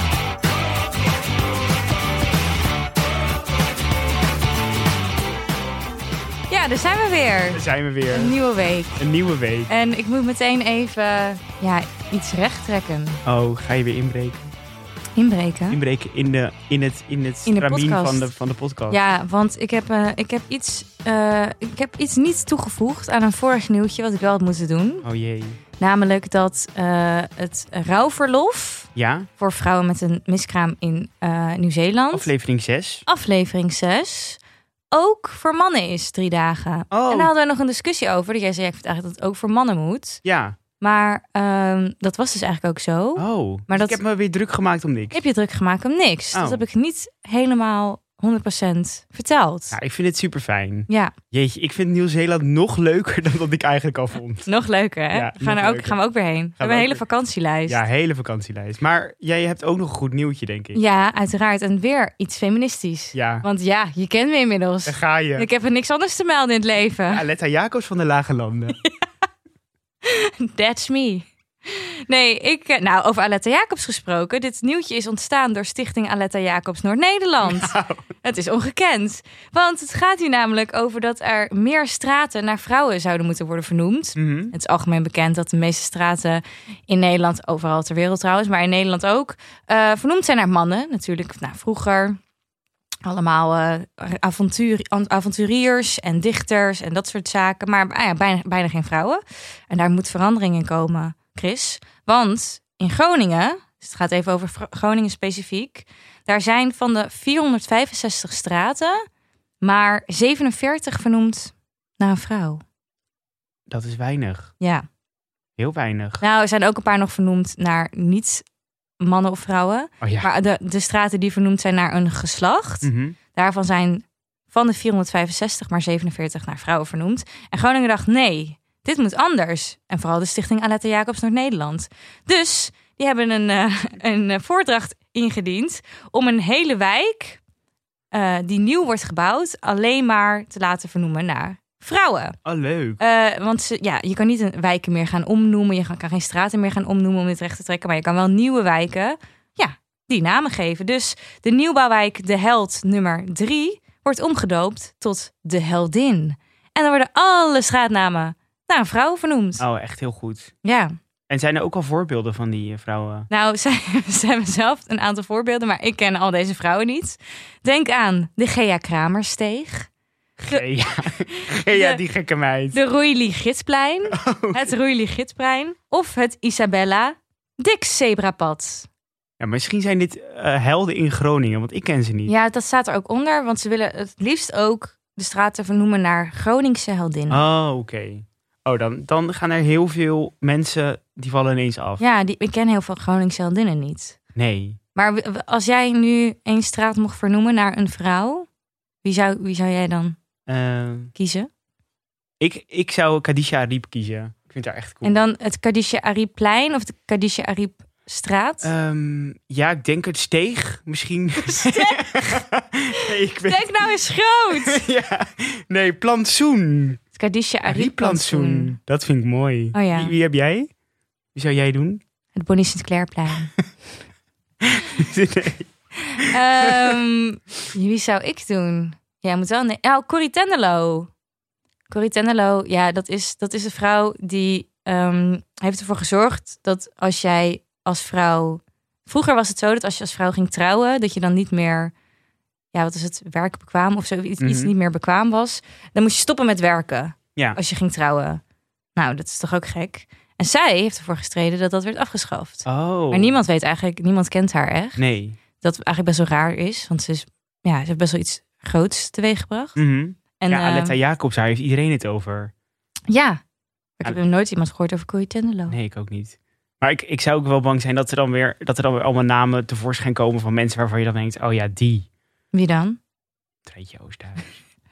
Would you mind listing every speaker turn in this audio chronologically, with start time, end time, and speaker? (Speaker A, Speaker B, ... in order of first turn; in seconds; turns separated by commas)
Speaker A: 6.5-9.0, Speaker B: 7.5-8.4, Speaker B: 9.0-9.7, Speaker A: 9.7-13.2, Speaker B: 13.2-14.5, Speaker A: 15.2-15.8, Speaker B: 15.7-19.0, Speaker A: 17.5-18.3, Speaker A: 18.9-25.1, Speaker B: 25.0-25.6, Speaker A: 25.8-28.9, Speaker B: 28.9-29.3, Speaker A: 29.4-32.3, Speaker B: 32.1-33.0, Speaker A: 33.1-34.4, Speaker A: 34.9-40.2, Speaker B: 36.9-37.3, Speaker B: 40.2-40.6, Speaker A: 40.8-44.0, Speaker B: 43.2-45.2, Speaker A: 45.1-49.8, Speaker B: 46.3-46.6, Speaker B: 49.7-54.5, Speaker A: 54.5-57.8, Speaker B: 55.1-56.0, Speaker B: 56.6-57.0, Speaker B: 57.7-60.8, Speaker A: 60.7-67.2, Speaker B: 63.1-63.5, Speaker B: 64.9-65.5, Speaker B: 67.1-68.8, Speaker A: 70.0-92.2, Speaker B: 77.4-78.1, Speaker B: 84.2-84.5, Speaker A: 93.0-109.0, Speaker A: 109.6-112.6, Speaker B: 113.7-114.5, Speaker A: 114.6-114.9, Speaker B: 115.6-116.2, Speaker A: 116.2-118.5, Speaker A: 119.0-137.4, Speaker B: 120.0-120.3, Speaker B: 122.8-123.2, Speaker A: 138.1-142.4, Speaker B: 142.4-143.0, Speaker A: 143.0-159.6, Speaker B: 159.6-160.5, Speaker A: 160.6-160.9, Speaker B: 161.3-163.3, Speaker A: 163.3-169.9, Speaker B: 170.4-172.8, Speaker A: 171.7-172.0, Speaker A: 172.7-178.9, Speaker B: 174.1-174.6, Speaker B: 179.4-182.3, Speaker A: 182.3-187.5, Speaker B: 187.3-192.0, Speaker A: 192.0-194.2, Speaker B: 194.3-194.8, Speaker A: 195.0-198.5, Speaker A: 199.0-200.2, Speaker B: 200.5-201.1, Speaker A: 201.2-201.5, Speaker B: 202.4-205.2, Speaker A: 205.0-208.7, Speaker B: 208.6-213.9, Speaker A: 211.4-212.0, Speaker A: 213.2-214.9, Speaker B: 214.5-217.0, Speaker A: 217.2-218.8, Speaker B: 217.7-220.7, Speaker A: 219.7-220.1, Speaker B: 221.3-222.0, Speaker A: 222.3-223.5, Speaker B: 224.6-225.7, Speaker A: 226.0-231.1, Speaker B: 226.3-226.9, Speaker A: 231.9-241.9, Speaker A: 242.7-248.4, Speaker B: 244.4-244.7, Speaker A: 249.0-255.0, Speaker B: 252.7-253.4, Speaker B: 255.0-255.4, Speaker A: 255.6-259.8, Speaker B: 259.8-262.5, Speaker A: 260.4-261.0, Speaker A: 263.1-263.4, Speaker A: 264.0-265.8, Speaker B: 265.7-272.1, Speaker A: 272.5-273.0, Speaker B: 273.7-274.6